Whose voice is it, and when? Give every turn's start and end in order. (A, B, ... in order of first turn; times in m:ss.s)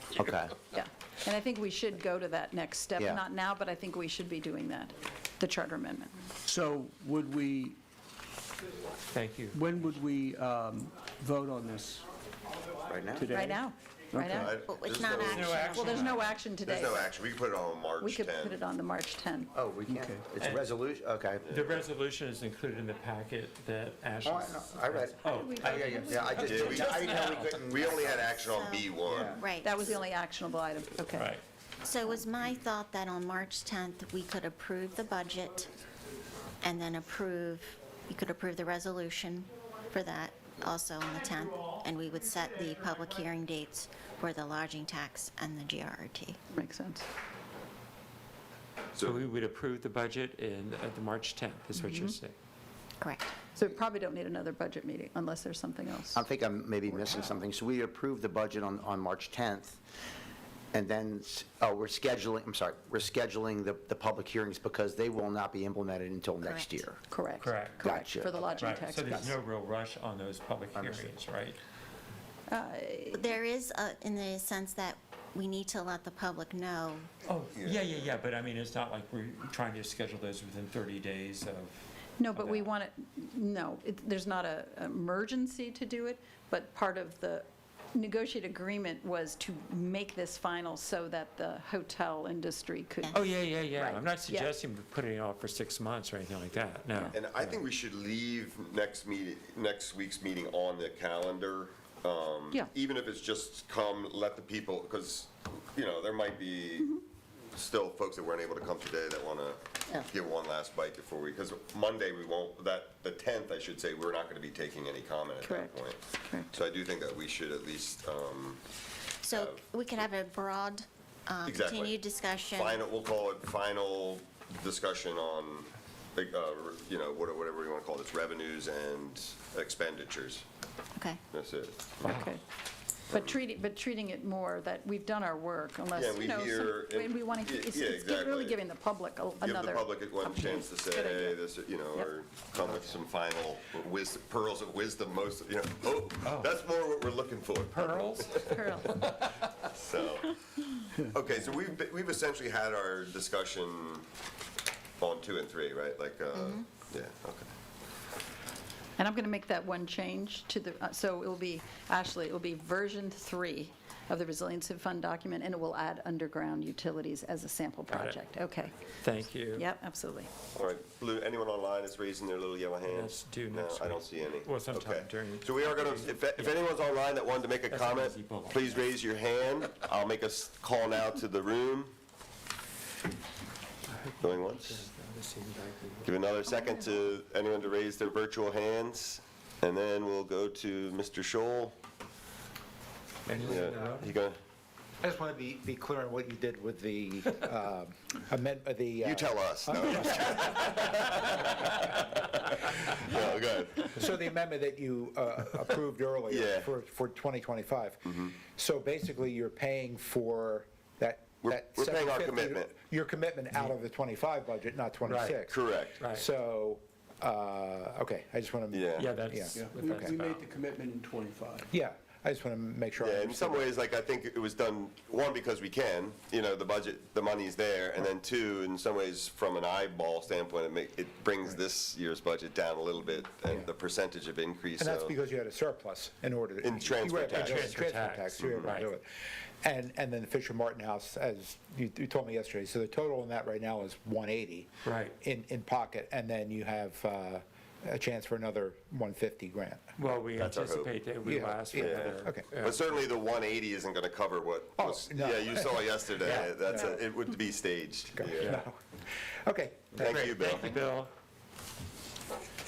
0:00.2-0:00.5 A
0:00.7-0:06.1 B
0:06.4-0:07.8 C
0:09.1-0:09.6 D
0:09.5-0:12.0 C
0:12.9-0:13.4 A
0:13.2-0:13.6 C
0:13.3-0:14.6 B
0:14.1-0:14.6 C
0:14.3-0:15.6 E
0:14.7-0:16.0 F
0:15.2-0:16.4 D
0:15.7-0:17.2 B
0:16.6-0:18.6 E
0:18.0-0:19.5 B
0:19.5-0:21.4 A
0:19.9-0:20.2 C
0:20.4-0:20.7 D
0:21.4-0:21.9 E
0:21.5-0:27.4 D
0:24.2-0:28.4 A
0:25.2-0:27.4 B
0:26.4-0:29.3 E
0:27.8-0:29.9 F
0:29.0-0:29.4 A
0:29.6-0:31.4 B
0:31.1-0:31.4 D
0:31.8-0:35.7 F
0:36.6-0:46.4 F
0:46.5-0:47.0 B
0:49.0-0:52.3 D
0:51.7-0:52.1 B
0:53.0-0:53.3 F
0:53.5-0:56.2 B
0:56.1-0:59.8 A
1:00.7-1:07.0 A
1:06.4-1:06.8 F
1:07.1-1:09.3 B
1:07.4-1:07.9 D
1:07.8-1:09.3 A
1:08.6-1:11.6 D
1:10.7-1:11.1 A
1:12.5-1:13.3 B
1:13.1-1:17.1 F
1:17.2-1:22.7 D
1:17.5-1:18.1 E
1:22.2-1:33.3 B
1:33.1-1:37.6 D
1:34.2-1:34.5 B
1:37.1-1:47.0 E
1:47.5-1:56.0 E
1:55.4-1:56.5 B
1:56.5-1:58.6 E
1:59.2-2:02.8 F
1:59.3-1:59.6 E
2:01.4-2:10.4 E
2:11.3-2:12.2 E
2:12.0-2:12.3 D
2:12.0-2:12.4 B
2:13.1-2:22.1 B
2:15.9-2:18.6 E
2:19.4-2:28.6 E
2:26.2-2:26.5 D
2:27.7-2:29.3 D
2:28.4-2:29.1 B
2:29.6-2:34.1 E
2:35.0-2:37.5 E
2:36.3-2:36.6 F
2:39.0-2:48.7 B
2:47.9-2:48.2 D
2:49.0-2:49.6 D
2:49.4-2:50.3 B
2:50.5-3:01.9 E
2:52.8-2:56.7 D
2:57.7-2:58.9 D
3:03.9-3:06.1 D
3:04.2-3:04.8 E
3:06.0-3:11.8 E
3:06.6-3:06.9 F
3:13.2-3:14.2 D
3:13.4-3:14.4 E
3:13.6-3:13.9 G
3:15.0-3:20.4 G
3:19.0-3:24.0 E
3:23.9-3:40.2 G
3:26.3-3:26.7 E
3:31.4-3:32.7 E
3:35.0-3:36.3 D
3:35.5-3:36.0 E
3:38.7-3:39.2 E
3:38.9-3:40.4 D
3:39.5-3:41.7 C
3:41.7-3:43.7 G
3:43.0-3:55.1 E
3:54.8-4:04.7 G
3:56.6-3:57.7 E
3:57.4-3:58.9 D
3:58.4-3:58.8 E
4:04.8-4:05.1 D
4:05.2-4:09.8 G
4:10.0-4:12.9 D
4:10.3-4:11.1 E
4:11.2-4:12.5 G
4:11.7-4:18.6 E
4:14.8-4:17.1 G
4:16.2-4:16.5 D
4:18.1-4:18.7 G
4:19.4-4:20.3 G
4:19.9-4:21.1 D
4:19.9-4:20.8 E